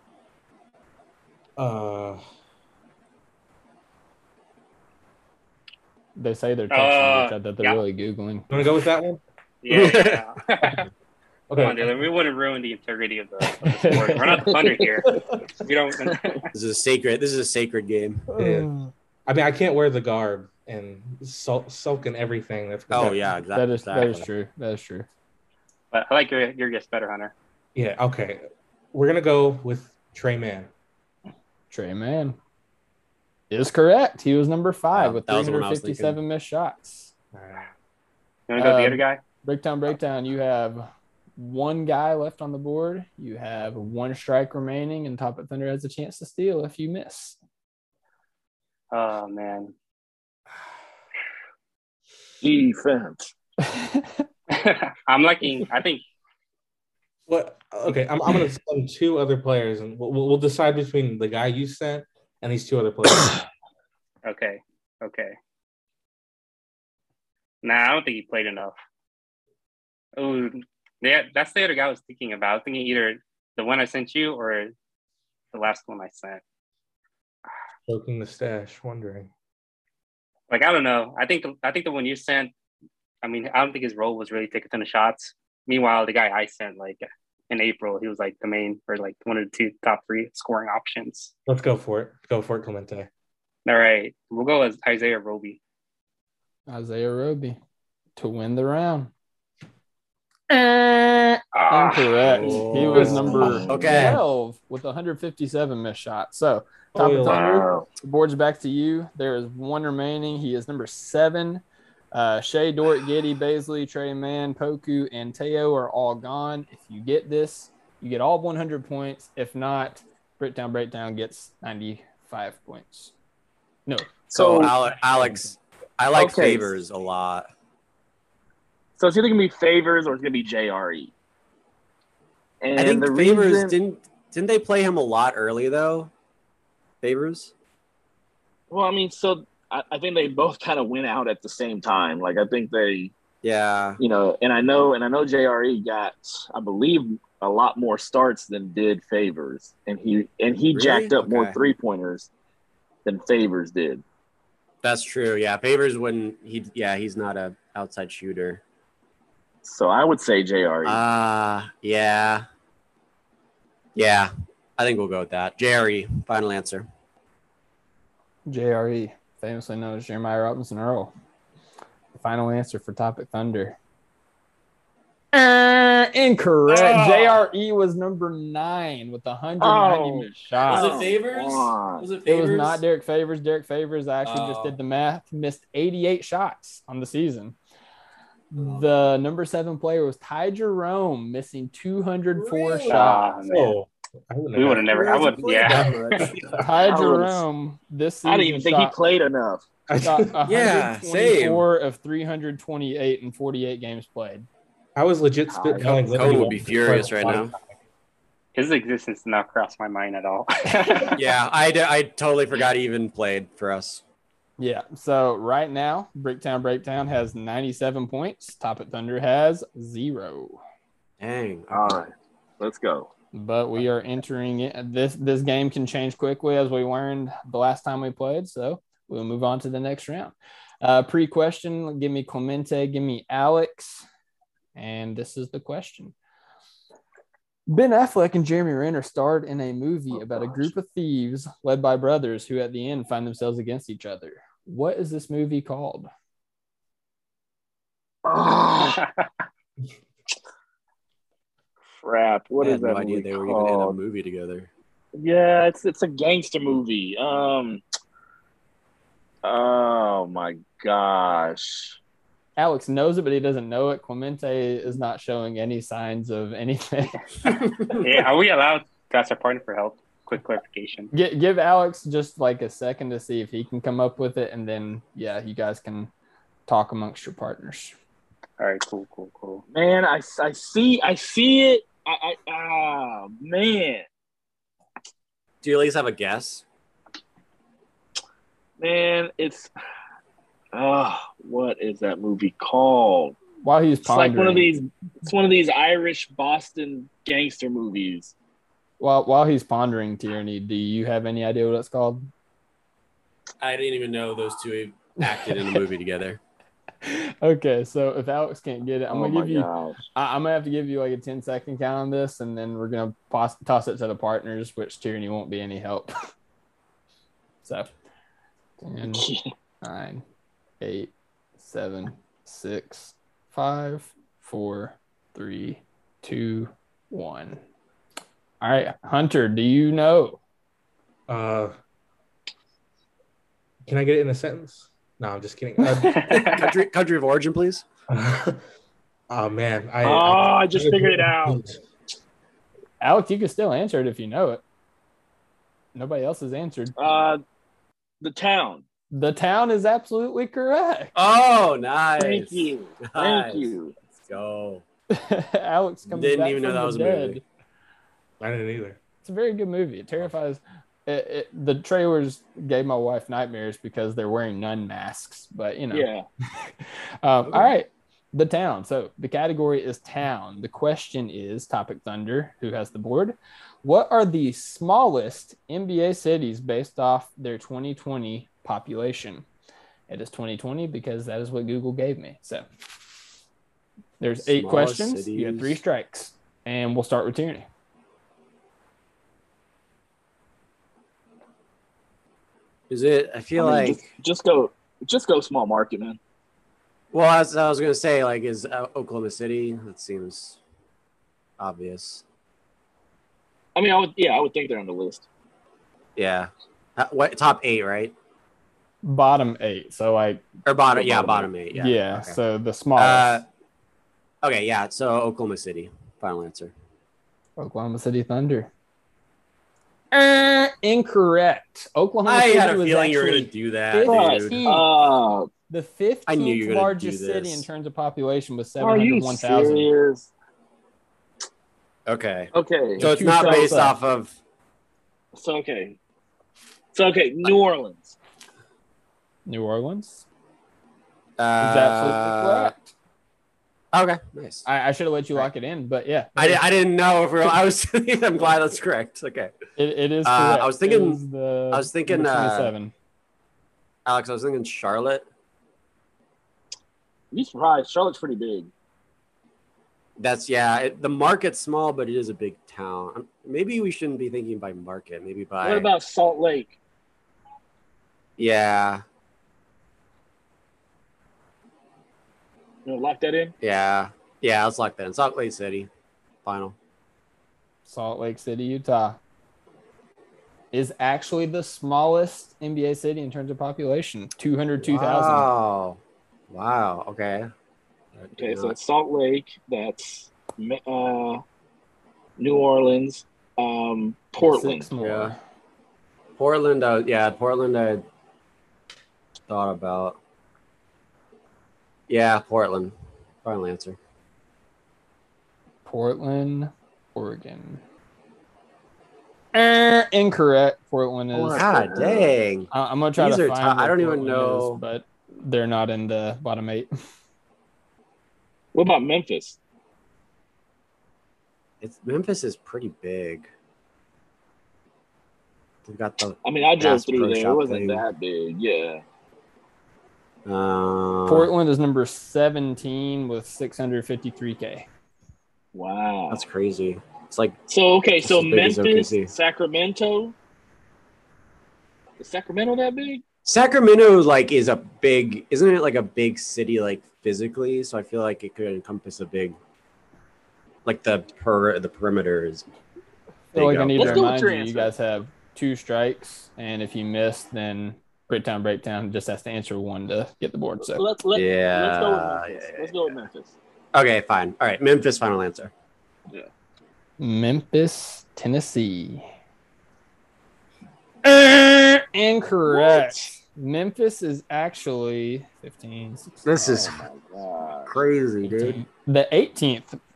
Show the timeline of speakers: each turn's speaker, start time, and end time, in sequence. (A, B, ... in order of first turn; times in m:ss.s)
0:01.6-0:02.2 A
0:06.2-0:08.5 B
0:06.7-0:07.8 C
0:08.5-0:09.2 A
0:09.6-0:10.8 C
0:09.7-0:10.2 D
0:11.5-0:12.0 A
0:11.6-0:16.4 C
0:13.6-0:14.4 B
0:14.4-0:15.0 E
0:16.5-0:18.3 D
0:18.3-0:18.9 B
0:18.4-0:18.7 A
0:19.3-0:23.2 A
0:22.9-0:24.3 D
0:23.5-0:25.1 B
0:25.9-0:27.3 C
0:27.7-0:30.7 A
0:31.7-0:32.4 B
0:33.5-0:37.1 B
0:34.9-0:36.2 D
0:37.3-0:37.7 A
0:38.5-0:39.2 C
0:38.6-0:47.4 B
0:48.9-0:49.7 C
0:52.4-0:53.3 E
0:53.6-0:54.1 B
0:54.5-0:56.0 C
0:57.3-1:03.4 A
1:04.2-1:05.3 C
1:07.6-1:08.7 C
1:10.2-1:14.7 C
1:15.5-1:16.4 C
1:17.9-1:19.3 A
1:20.5-1:22.5 C
1:23.2-1:31.3 C
1:31.5-1:33.1 A
1:33.6-1:35.6 C
1:36.7-1:37.6 B
1:38.2-1:39.1 B
1:40.5-1:51.6 B
1:41.5-1:43.8 E
1:42.3-1:44.2 D
1:42.6-1:44.0 A
1:46.9-1:47.4 A
1:47.2-1:47.9 E
1:52.1-2:03.1 B
2:03.8-2:05.5 B
2:04.3-2:04.7 E
2:04.3-2:07.5 D
2:06.1-2:06.7 E
2:09.0-2:11.1 E
2:12.6-2:13.8 E
2:12.8-2:16.1 D
2:17.0-2:17.5 D
2:18.7-2:23.1 E
2:23.4-2:24.0 D
2:24.0-2:32.3 E
2:30.7-2:31.6 D
2:33.0-2:34.0 E
2:34.8-2:38.6 D
2:39.6-2:41.0 E
2:40.8-2:42.4 D
2:43.9-2:46.8 D
2:48.5-2:51.1 B
2:52.1-2:53.8 B
2:55.3-3:01.0 B
2:56.7-2:57.4 E
2:59.6-3:02.1 E
3:00.7-3:02.8 D
3:02.2-3:07.6 B
3:04.2-3:04.8 D
3:08.5-3:13.3 B
3:08.6-3:08.9 D
3:12.3-3:13.1 D
3:12.9-3:13.7 C
3:13.4-3:15.1 A
3:14.6-3:16.2 C
3:14.9-3:16.3 D
3:15.6-3:16.7 A
3:16.6-3:19.0 B
3:16.8-3:17.4 E
3:18.2-3:19.6 E
3:19.9-3:20.4 A
3:20.0-3:24.5 B
3:20.4-3:21.6 D
3:25.0-3:27.7 A
3:25.5-3:26.5 E
3:26.1-3:27.5 D
3:28.5-3:31.2 C
3:31.1-3:34.0 D
3:34.6-3:40.6 B
3:41.2-3:42.1 D
3:41.7-3:43.1 E
3:43.3-3:54.0 B
3:54.8-3:56.1 B
3:57.7-4:06.1 B
4:08.2-4:09.0 E
4:12.0-4:14.0 E
4:12.6-4:14.7 D
4:15.2-4:17.8 E
4:19.4-4:22.0 E
4:22.6-4:27.2 B
4:27.9-4:31.1 C
4:31.1-4:36.1 B
4:36.7-4:37.9 B
4:38.6-4:39.6 C
4:39.7-4:44.0 E
4:45.6-4:46.6 D
4:48.8-4:49.7 E
4:50.7-4:53.4 E
4:53.6-4:54.7 B
4:54.0-4:58.3 E
4:59.0-5:02.3 B
5:03.6-5:06.4 D
5:05.2-5:05.8 B
5:07.0-5:16.1 B
5:09.1-5:10.0 E
5:17.6-5:17.9 B
5:18.8-5:19.3 B
5:19.0-5:19.4 E
5:19.8-5:20.2 B
5:20.8-5:27.6 B
5:28.6-5:30.4 B
5:31.3-5:31.8 A
5:33.8-5:36.4 A
5:35.8-5:36.4 B
5:36.1-5:36.6 C
5:36.4-5:37.8 D
5:38.1-5:38.6 A
5:39.3-5:41.8 A
5:40.0-5:41.6 E
5:43.0-5:44.6 B
5:45.9-5:46.9 B
5:47.0-5:47.4 E
5:48.2-5:48.8 E
5:49.1-5:51.1 B
5:51.1-5:54.8 D
5:52.2-5:53.9 E
5:55.1-5:57.4 B
5:56.1-5:57.4 D
5:58.4-5:59.0 A
5:59.2-6:06.1 B
6:05.9-6:06.3 E
6:06.8-6:19.4 B
6:20.1-6:22.7 B
6:24.2-6:27.7 B
6:24.4-6:25.8 D
6:32.9-6:34.0 D
6:33.6-6:36.2 E
6:37.1-6:40.6 D
6:41.6-6:42.2 D
6:43.7-6:45.3 E
6:46.2-6:48.1 D
6:49.0-6:50.4 B
6:50.6-6:52.4 D
6:50.9-6:51.5 E
6:51.7-6:53.4 B
6:53.0-6:53.4 D
6:54.4-6:56.7 D
6:57.6-6:58.7 B
7:00.1-7:04.9 B
7:02.2-7:04.6 D
7:04.0-7:05.5 E
7:05.7-7:09.9 B
7:06.3-7:07.7 D
7:08.8-7:10.3 E
7:12.1-7:14.3 D
7:12.5-7:13.8 E
7:13.0-7:14.0 B
7:15.3-7:16.0 E
7:16.9-7:18.2 E
7:19.4-7:20.2 B
7:21.4-7:22.7 D
7:21.6-7:22.9 B
7:23.9-7:24.6 D
7:24.6-7:26.6 B
7:26.4-7:29.5 D
7:29.8-7:32.9 B
7:30.2-7:32.7 D
7:34.0-7:35.2 D
7:37.3-7:38.7 E
7:40.2-7:45.9 D
7:45.6-7:46.7 E
7:48.4-7:49.0 D
7:52.8-7:53.5 E
7:53.6-7:55.9 D
7:56.4-7:56.7 D
7:57.8-7:59.2 B
8:00.7-8:05.5 B
8:04.8-8:06.0 D
8:06.5-8:07.5 D
8:08.1-8:08.8 D
8:08.4-8:11.4 E
8:12.4-8:14.9 E
8:14.4-8:15.4 B
8:15.0-8:15.3 D
8:16.4-8:18.0 D
8:19.5-8:20.2 D
8:22.1-8:24.0 D
8:25.8-8:27.8 B
8:29.5-8:31.7 B
8:31.3-8:32.3 E
8:31.5-8:34.8 D
8:32.7-8:36.9 B
8:38.7-8:39.6 E
8:41.8-8:43.5 D
8:45.8-8:48.0 D
8:46.4-8:49.0 E
8:50.4-8:51.5 D
8:51.3-8:54.9 B
8:55.7-8:56.4 E
8:56.3-8:57.6 D
8:57.7-9:00.3 E
8:58.2-8:59.3 D
9:02.2-9:03.2 E
9:03.4-9:09.6 D
9:10.8-9:12.6 D
9:13.5-9:14.3 D
9:13.5-9:21.0 B
9:14.0-9:14.9 E
9:20.8-9:23.5 E
9:21.3-9:23.1 D
9:23.9-9:25.7 D
9:27.2-9:29.3 B
9:31.2-9:36.6 B
9:32.7-9:33.4 E
9:36.4-9:37.0 D
9:36.6-9:38.0 E
9:37.9-9:38.8 D
9:38.4-9:40.0 B